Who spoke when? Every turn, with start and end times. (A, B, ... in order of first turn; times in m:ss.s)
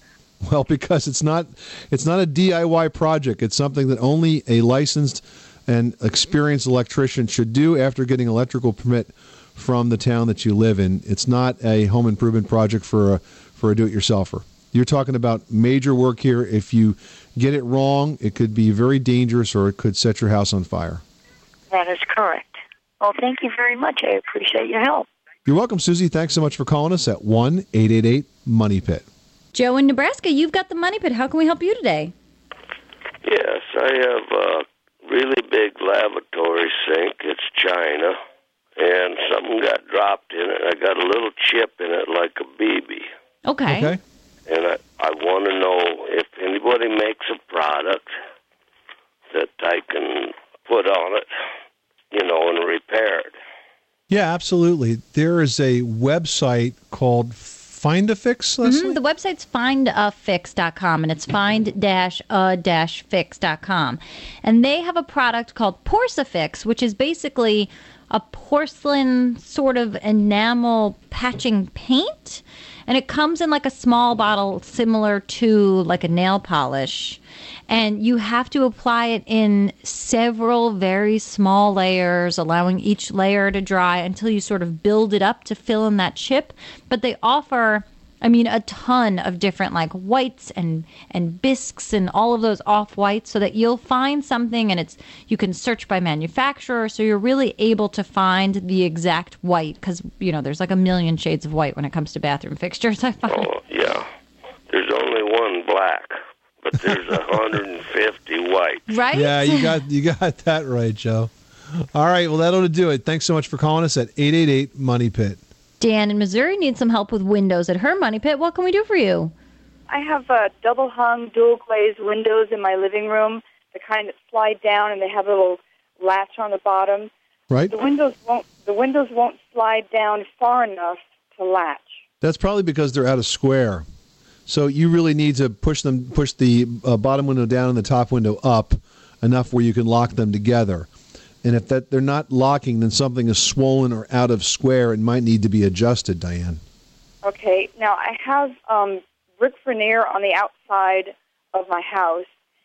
0:00.4-0:21.0 A
0:21.7-0:25.0 B
0:25.4-0:29.0 A
0:29.5-0:32.1 C
0:33.2-0:38.2 D
0:38.8-0:43.1 D
0:43.4-0:43.9 C
0:43.7-0:44.0 A
0:44.5-0:48.1 D
0:49.3-0:51.3 D
0:52.1-0:53.3 D
0:54.1-0:59.0 A
0:58.6-1:43.5 C
1:43.3-1:44.0 D
1:44.7-1:48.8 D
1:48.9-1:49.8 C
1:49.1-1:51.3 A
1:51.9-1:55.4 A
1:55.8-1:59.3 C
1:59.9-2:07.1 E
2:07.7-2:11.9 E
2:12.2-2:13.8 A
2:14.5-2:20.9 A
2:21.4-2:26.6 A
2:27.2-2:32.3 E